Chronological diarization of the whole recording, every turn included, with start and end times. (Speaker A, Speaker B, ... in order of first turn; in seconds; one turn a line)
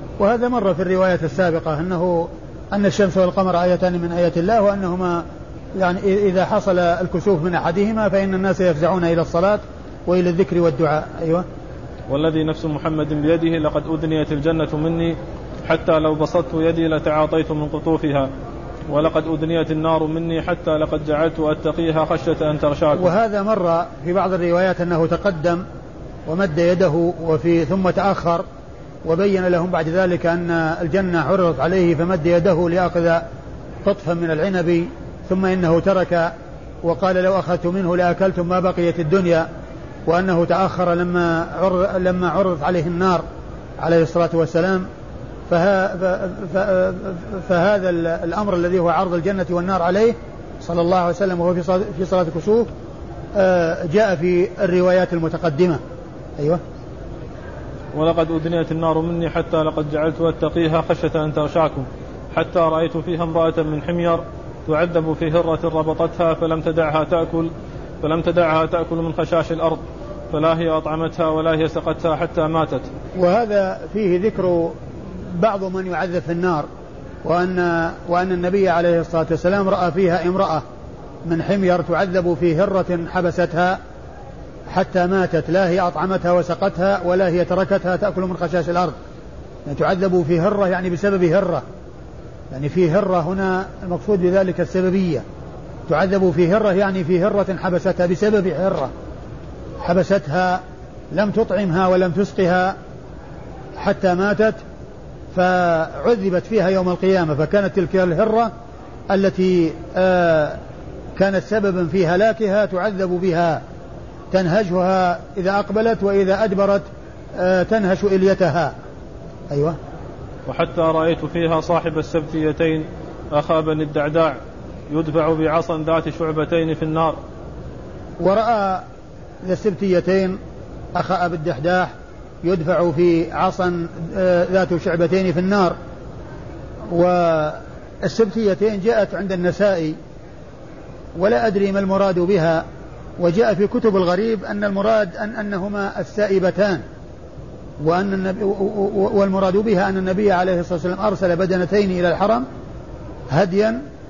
Speaker A: 0.2-5.2
Speaker A: 5.8-11.4
Speaker B: 12.1-18.3
Speaker B: 18.9-23.1
Speaker A: 22.9-25.6
Speaker A: 26.2-28.4
Speaker A: 29.0-33.2
Speaker A: 33.9-36.3
Speaker A: 36.8-39.5
Speaker A: 40.1-43.2
Speaker A: 43.8-44.9
Speaker A: 45.5-52.7
Speaker A: 53.4-55.8
Speaker B: 57.9-67.5
Speaker B: 68.0-72.9
Speaker A: 73.1-76.7
Speaker A: 77.2-80.6
Speaker A: 81.2-83.8
Speaker A: 84.7-89.0
Speaker A: 89.7-91.6
Speaker A: 92.5-95.2
Speaker A: 95.9-98.9
Speaker A: 99.8-102.8
Speaker A: 103.8-104.6
Speaker A: 105.3-108.5
Speaker A: 109.1-110.6
Speaker A: 111.2-113.6
Speaker A: 114.3-118.7
Speaker A: 119.5-119.8
Speaker B: 120.5-124.4
Speaker B: 124.9-127.2
Speaker A: 128.2-128.8
Speaker A: 129.4-130.4
Speaker A: 130.9-135.8
Speaker A: 136.9-140.0
Speaker A: 141.2-142.6
Speaker A: 143.2-146.8
Speaker A: 147.8-152.4
Speaker A: 153.3-153.8